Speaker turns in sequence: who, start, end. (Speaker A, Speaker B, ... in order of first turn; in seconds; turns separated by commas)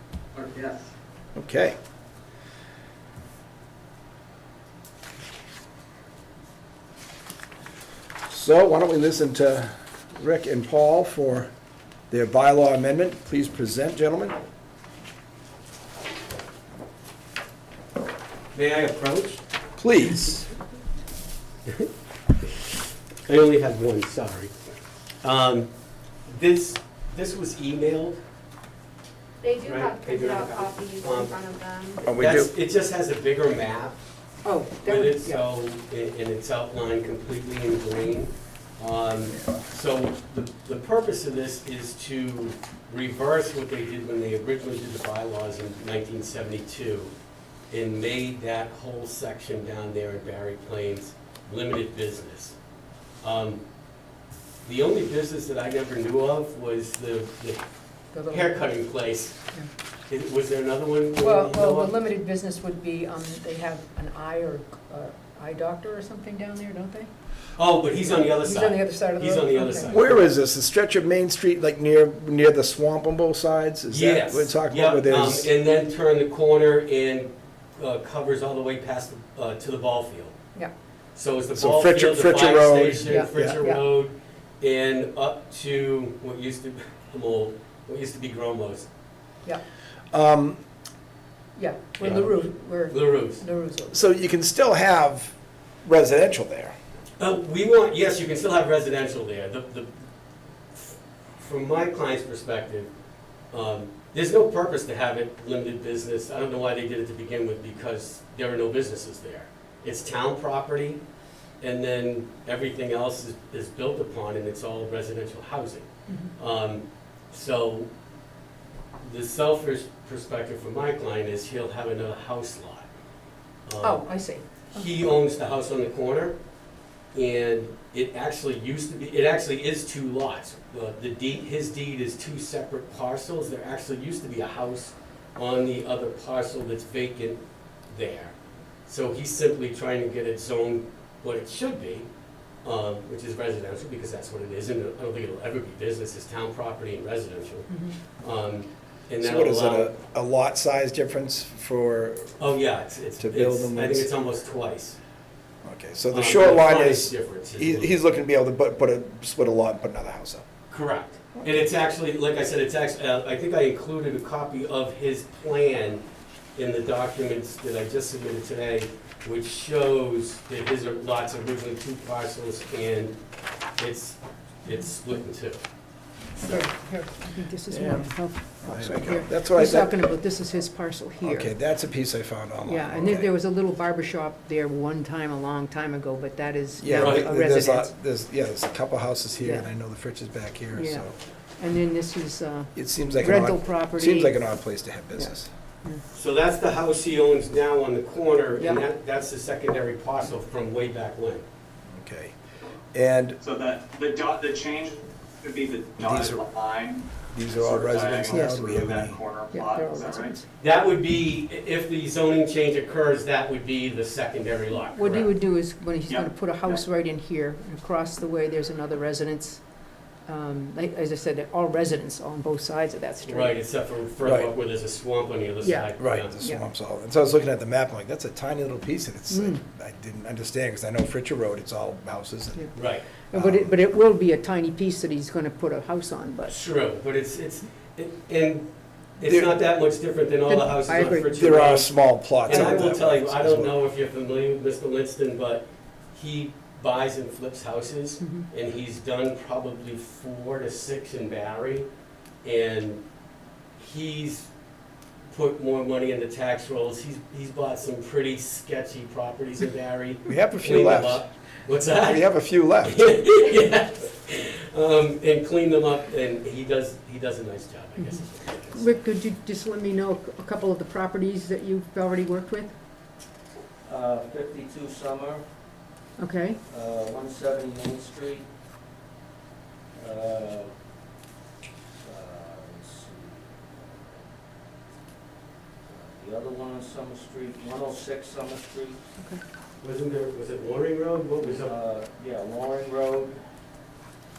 Speaker A: 0.4-0.8, Speaker B: 1.4-1.8, Speaker B: 8.3-11.5, Speaker B: 12.1-14.4, Speaker C: 18.5-19.4, Speaker B: 19.8-20.5, Speaker C: 22.4-22.7, Speaker C: 23.3-24.5, Speaker C: 25.2-25.7, Speaker C: 26.3-28.2, Speaker D: 29.4-32.1, Speaker C: 29.6-31.4, Speaker B: 32.1-32.5, Speaker C: 32.1-34.0, Speaker E: 34.4-35.4, Speaker C: 34.8-47.1, Speaker C: 47.7-52.5, Speaker C: 53.2-53.6, Speaker C: 54.6-57.6, Speaker E: 58.1-58.7, Speaker C: 58.2-59.4, Speaker C: 60.1-61.9, Speaker E: 61.2-67.1, Speaker C: 67.6-70.3, Speaker E: 67.9-70.0, Speaker B: 69.9-75.5, Speaker C: 73.9-80.3, Speaker C: 81.2-88.9, Speaker B: 81.5-83.6, Speaker E: 83.1-83.8, Speaker B: 90.1-90.6, Speaker E: 91.6-94.0, Speaker C: 92.0-93.4, Speaker B: 93.9-96.8, Speaker C: 97.2-99.9, Speaker C: 100.7-102.9, Speaker C: 103.5-111.0, Speaker C: 111.6-117.9, Speaker C: 119.0-122.9, Speaker C: 123.7-124.1, Speaker E: 123.8-124.9, Speaker C: 124.7-126.3, Speaker C: 127.1-138.3, Speaker C: 138.9-142.1, Speaker C: 142.6-149.9, Speaker E: 147.7-147.9, Speaker B: 149.2-152.4, Speaker C: 152.4-155.0, Speaker B: 153.2-154.1, Speaker B: 155.6-160.4, Speaker C: 156.1-157.9, Speaker C: 160.7-166.0, Speaker C: 166.6-173.2, Speaker C: 173.8-175.6, Speaker C: 176.3-176.6, Speaker E: 176.4-181.5, Speaker B: 177.7-178.1, Speaker B: 178.7-180.1, Speaker B: 181.2-183.3, Speaker E: 182.7-187.9, Speaker B: 186.8-191.1, Speaker C: 187.0-187.3, Speaker E: 189.4-189.7, Speaker E: 190.7-191.1, Speaker E: 191.6-194.5, Speaker B: 192.8-195.5, Speaker C: 196.1-201.4, Speaker E: 198.6-198.8, Speaker B: 201.9-202.4, Speaker B: 202.9-203.4, Speaker A: 203.4-210.4, Speaker B: 206.0-206.5, Speaker B: 207.2-209.2, Speaker E: 208.2-208.6, Speaker E: 209.5-210.4, Speaker C: 210.6-215.3, Speaker E: 214.7-219.6, Speaker A: 216.1-216.8, Speaker E: 220.3-223.6, Speaker C: 223.2-226.3, Speaker B: 224.2-224.5, Speaker E: 225.6-226.6, Speaker B: 226.0-232.7, Speaker E: 229.3-229.6, Speaker C: 232.7-233.1, Speaker E: 233.3-236.6, Speaker B: 233.3-233.8, Speaker C: 236.5-238.7, Speaker C: 239.2-251.9, Speaker B: 239.2-239.5, Speaker E: 240.5-241.7, Speaker B: 241.3-243.8, Speaker E: 248.2-248.5, Speaker C: 252.4-253.0, Speaker C: 253.8-254.5, Speaker C: 255.3-269.0, Speaker B: 260.3-261.2, Speaker B: 262.0-263.2, Speaker E: 268.0-272.7, Speaker F: 273.9-275.4, Speaker E: 276.2-276.6, Speaker F: 276.7-278.5, Speaker F: 279.9-280.7, Speaker F: 282.0-284.3, Speaker F: 285.9-289.0, Speaker C: 289.8-291.8, Speaker F: 291.4-293.4